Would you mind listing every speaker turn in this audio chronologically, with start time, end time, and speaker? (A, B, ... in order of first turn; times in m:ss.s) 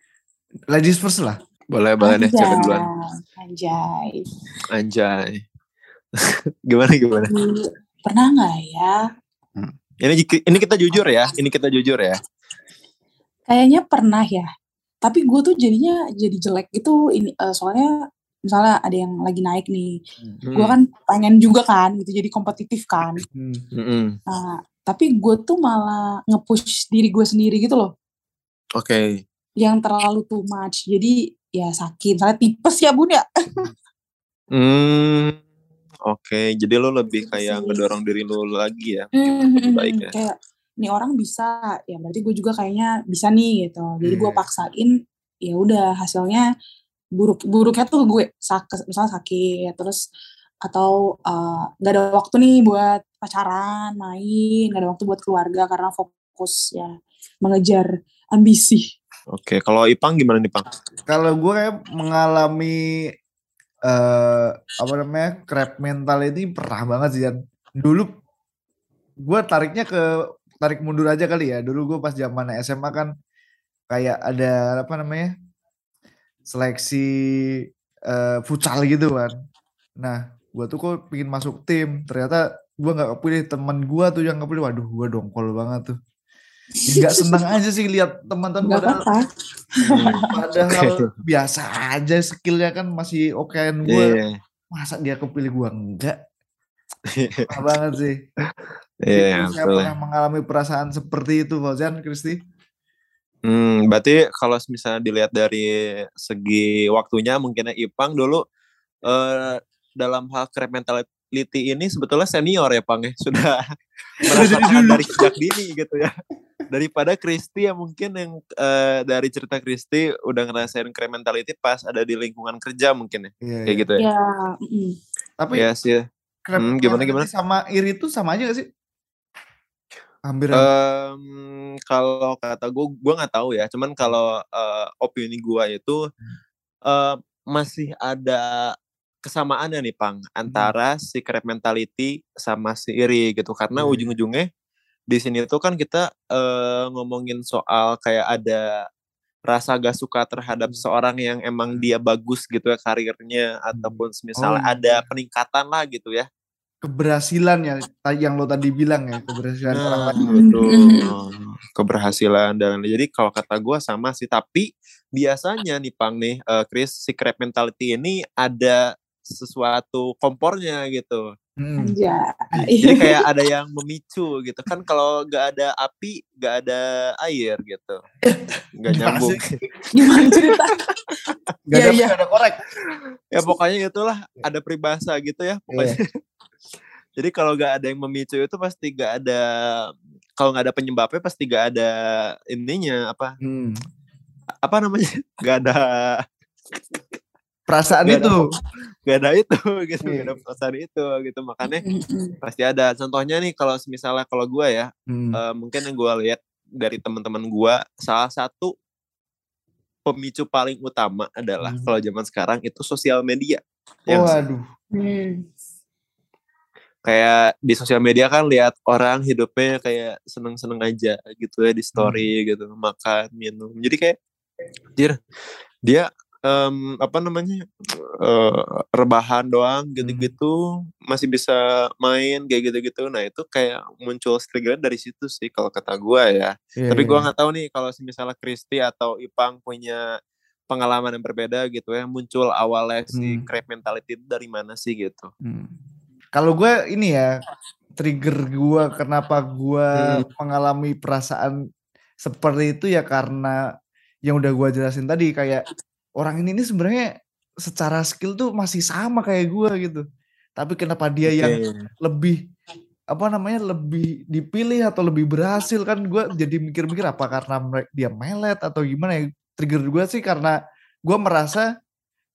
0:00.7-0:01.4 A
0:01.7-0:02.8 B
0:02.0-0:04.3 C
0:04.7-0:05.4 B
0:06.7-0:07.3 B
0:07.2-0:09.0 C
0:10.0-0:12.2 B
0:13.5-0:14.5 C
0:15.0-0:17.9 C
0:18.5-0:19.9 C
0:20.5-0:20.8 B
0:20.6-0:23.2 C
0:23.3-0:23.6 A
0:23.7-0:24.2 B
0:24.3-0:27.9 C
0:28.8-0:29.2 B
0:29.6-0:33.2 C
0:34.5-0:35.4 B
0:36.1-0:40.1 B
0:37.1-0:37.8 C
0:39.2-0:44.9 C
0:44.0-0:44.4 A
0:45.4-0:46.4 C
0:47.2-0:50.0 C
0:50.6-0:56.9 C
0:57.4-0:58.8 C
0:59.3-1:00.7 B
1:01.1-1:03.0 A
1:03.9-1:08.1 A
1:09.2-1:10.0 A
1:10.6-1:13.1 A
1:13.9-1:15.3 A
1:16.5-1:17.6 A
1:18.1-1:19.3 A
1:20.0-1:26.0 A
1:26.9-1:27.4 C
1:26.9-1:29.0 A
1:28.7-1:29.3 C
1:29.8-1:31.0 B
1:29.9-1:30.3 C
1:30.3-1:34.2 A
1:33.9-1:34.3 B
1:34.7-1:36.2 A
1:37.1-1:37.5 B
1:37.5-1:38.2 A
1:39.0-1:39.9 B
1:39.1-1:42.4 A
1:43.4-1:48.4 B
1:49.1-1:53.6 B
1:54.3-1:56.1 B
1:54.3-1:55.1 A
1:56.7-2:04.0 B
2:03.4-2:03.9 A
2:04.0-2:04.9 C
2:05.4-2:05.6 A
2:05.5-2:06.0 B
2:06.4-2:08.7 A
2:06.6-2:07.3 B
2:10.3-2:10.7 A
2:10.5-2:16.0 B
2:16.9-2:18.7 B
2:19.2-2:24.4 B
2:20.5-2:20.7 A
2:23.8-2:24.1 A
2:25.1-2:28.6 B
2:29.5-2:36.3 B
2:33.7-2:35.1 A
2:36.8-2:40.2 A
2:39.7-2:51.2 B
2:40.3-2:41.1 C
2:51.6-2:51.9 A
2:51.8-2:53.1 C
2:52.8-2:58.0 B
2:58.2-2:59.4 A
2:58.8-2:59.5 B
2:59.9-3:00.8 C
3:01.7-3:02.6 A
3:01.7-3:02.2 C
3:03.3-3:06.0 B
3:05.7-3:06.0 A
3:07.2-3:09.4 B
3:10.4-3:11.9 B
3:12.5-3:13.4 B
3:13.4-3:13.8 A
3:14.6-3:16.2 B
3:17.7-3:18.4 A
3:18.0-3:18.5 B
3:19.1-3:21.8 B
3:20.0-3:20.3 A
3:21.7-3:22.4 C
3:22.4-3:28.7 B
3:25.1-3:25.4 A
3:30.0-3:34.4 B
3:31.6-3:31.9 A
3:34.1-3:34.6 A
3:35.0-3:35.4 C
3:37.0-3:44.2 B
3:42.0-3:42.3 A
3:45.8-3:47.6 B
3:48.2-3:50.5 B
3:50.0-3:50.3 A
3:51.1-4:00.0 B
3:56.8-3:57.3 A
4:00.7-4:05.3 B
4:03.1-4:03.4 A
4:05.4-4:05.7 A
4:06.3-4:07.3 A
4:08.0-4:11.6 A
4:09.9-4:10.2 B
4:12.2-4:13.6 A
4:14.3-4:15.6 A
4:16.2-4:17.1 A
4:17.6-4:20.0 A
4:20.6-4:22.4 A
4:21.3-4:21.9 B
4:23.1-4:30.5 A
4:31.1-4:31.7 A